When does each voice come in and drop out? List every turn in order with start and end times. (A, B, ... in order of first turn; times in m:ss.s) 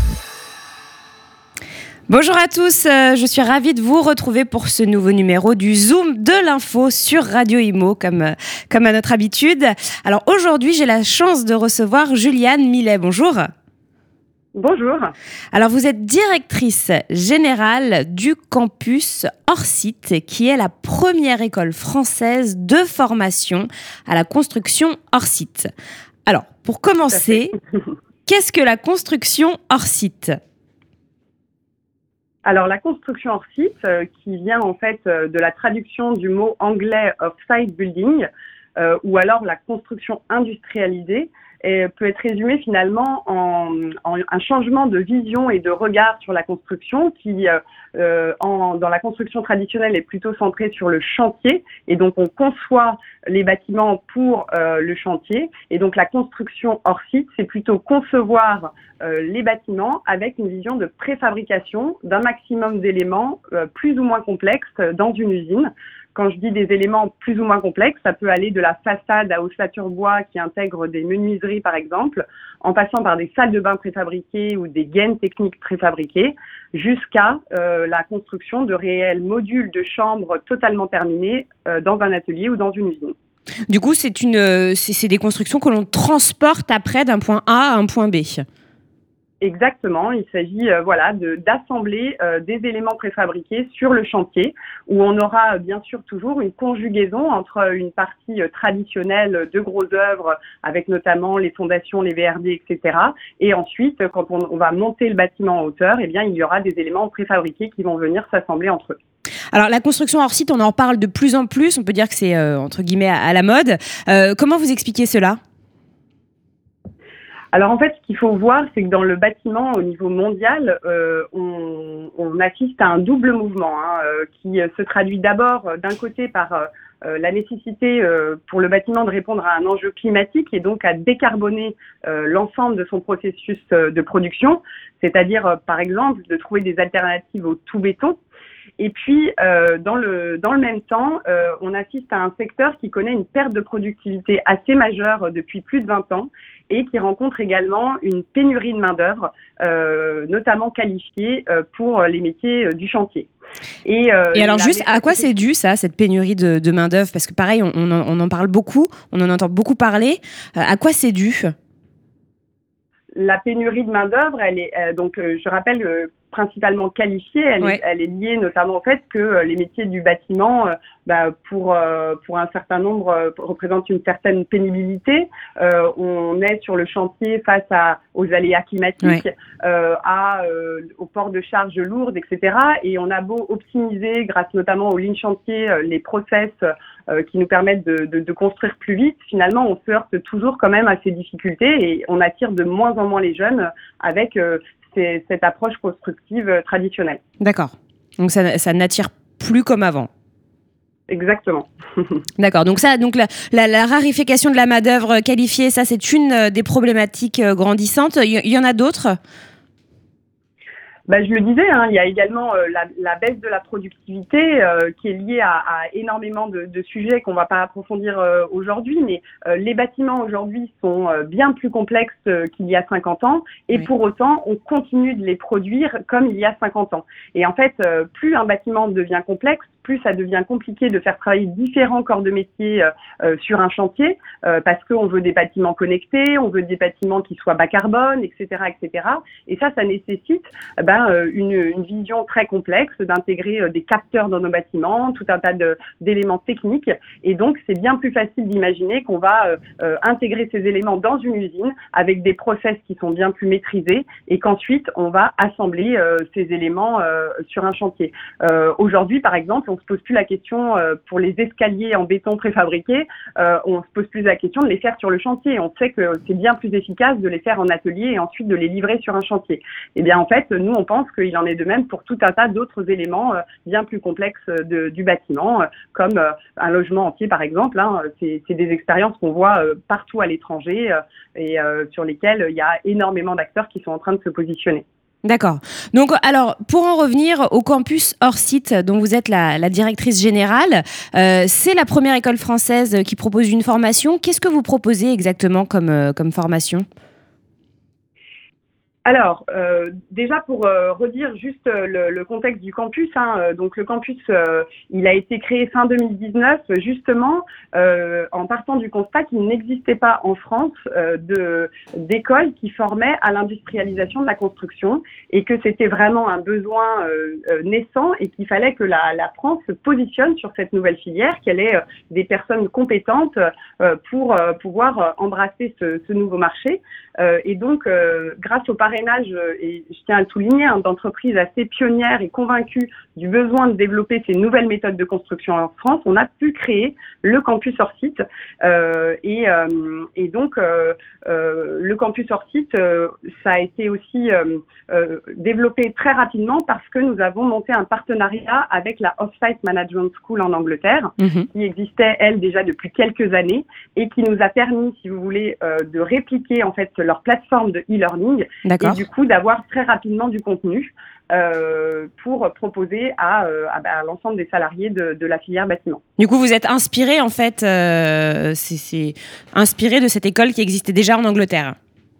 0:02.1-0:13.5 A
0:14.5-0:15.1 B
0:15.5-0:25.7 A
0:26.3-0:27.5 A
0:28.2-0:30.4 A
0:32.4-1:23.1 B
1:23.7-1:28.4 A
1:29.4-1:49.0 B
1:49.5-1:55.4 A
1:57.5-2:18.2 B
2:18.8-2:33.3 B
2:33.8-2:35.3 B
2:34.3-2:41.5 A
2:43.1-3:17.2 B
3:17.4-3:20.1 A
3:21.1-3:22.2 B
3:22.4-3:29.2 A
3:31.1-4:44.8 B
4:45.2-4:56.8 A
4:59.0-6:06.0 B
5:51.2-5:51.5 A
5:58.6-5:59.0 A
6:06.2-6:11.8 A